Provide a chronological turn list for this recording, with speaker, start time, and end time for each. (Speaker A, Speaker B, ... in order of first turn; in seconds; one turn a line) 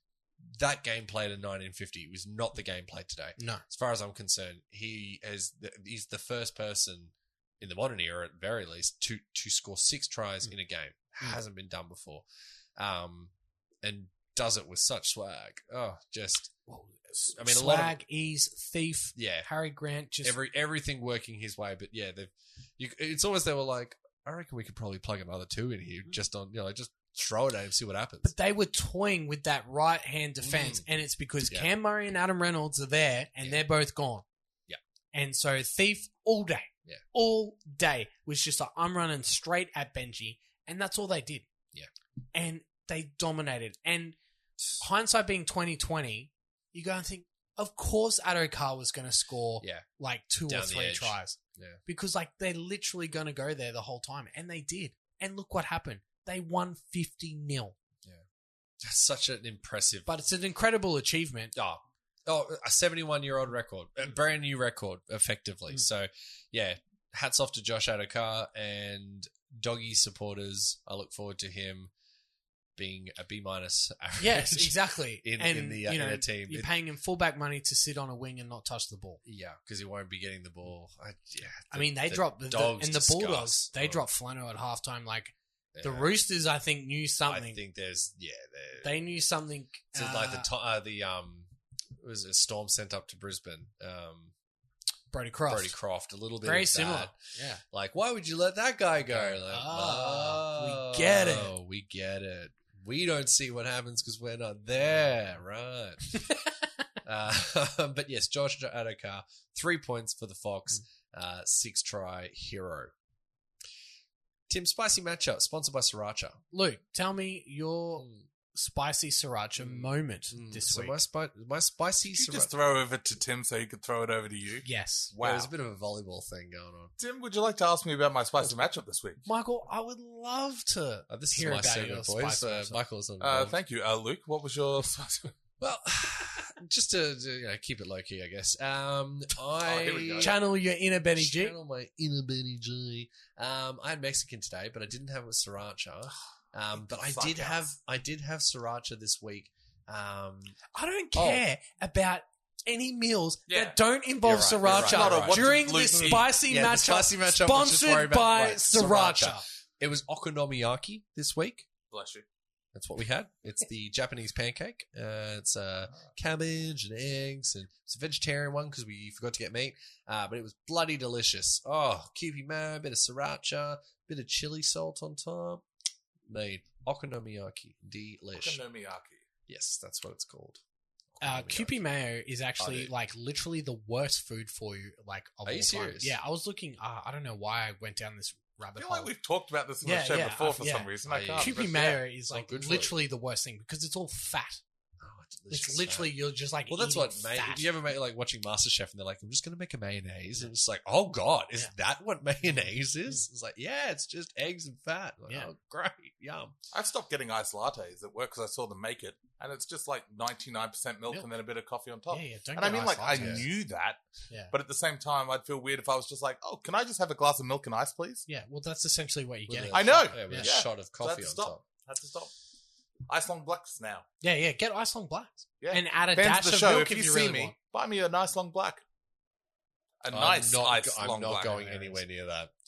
Speaker A: 0.4-12.2
Speaker B: 3.4-3.6
Speaker A: 12.8-13.3
Speaker A: 13.8-16.5
Speaker B: 16.7-20.4
Speaker A: 17.3-18.0
Speaker A: 19.1-19.5
Speaker A: 20.2-28.3
Speaker B: 28.2-34.2
Speaker A: 30.4-30.9
Speaker B: 35.1-41.5
Speaker B: 42.3-44.1
Speaker B: 44.7-57.8
Speaker A: 49.6-49.9
Speaker A: 50.5-51.8
Speaker A: 58.8-60.1
Speaker B: 60.1-61.5
Speaker A: 61.5-71.9
Speaker A: 72.8-76.7
Speaker B: 74.2-79.2
Speaker A: 79.2-84.0
Speaker B: 81.7-87.6
Speaker A: 85.7-86.1
Speaker A: 87.3-89.0
Speaker B: 88.8-90.5
Speaker A: 89.9-94.3
Speaker B: 95.1-95.7
Speaker A: 95.5-97.1
Speaker B: 96.4-97.6
Speaker A: 97.7-106.4
Speaker B: 99.1-101.5
Speaker A: 107.0-112.9
Speaker A: 114.5-116.4
Speaker B: 116.5-121.0
Speaker A: 119.6-122.5
Speaker C: 122.1-125.5
Speaker B: 124.6-125.1
Speaker A: 125.2-126.9
Speaker C: 127.0-129.2
Speaker B: 129.2-132.8
Speaker A: 131.1-133.6
Speaker C: 133.2-135.3
Speaker A: 135.6-140.4
Speaker C: 139.6-140.3
Speaker B: 140.2-141.5
Speaker A: 141.2-150.6
Speaker C: 146.9-147.6
Speaker B: 150.7-159.4
Speaker A: 151.1-151.4
Speaker C: 153.5-153.8
Speaker A: 154.2-161.7
Speaker C: 154.7-156.3
Speaker C: 161.9-162.2
Speaker A: 162.7-175.6
Speaker A: 176.3-178.6
Speaker C: 178.3-179.2
Speaker A: 179.5-180.6
Speaker A: 181.1-181.8
Speaker B: 181.2-189.1
Speaker A: 182.6-182.9
Speaker A: 185.4-186.2
Speaker C: 188.7-192.0
Speaker B: 189.8-194.6
Speaker A: 191.1-191.7
Speaker A: 192.3-193.0
Speaker A: 195.0-196.1
Speaker B: 195.5-197.7
Speaker A: 196.7-206.5
Speaker C: 206.7-218.2
Speaker B: 212.1-213.4
Speaker A: 213.1-213.4
Speaker B: 218.3-220.5
Speaker A: 219.5-221.6
Speaker C: 219.7-222.3
Speaker C: 223.1-224.1
Speaker B: 224.2-227.5
Speaker C: 225.6-228.8
Speaker C: 230.0-232.0
Speaker A: 230.1-232.5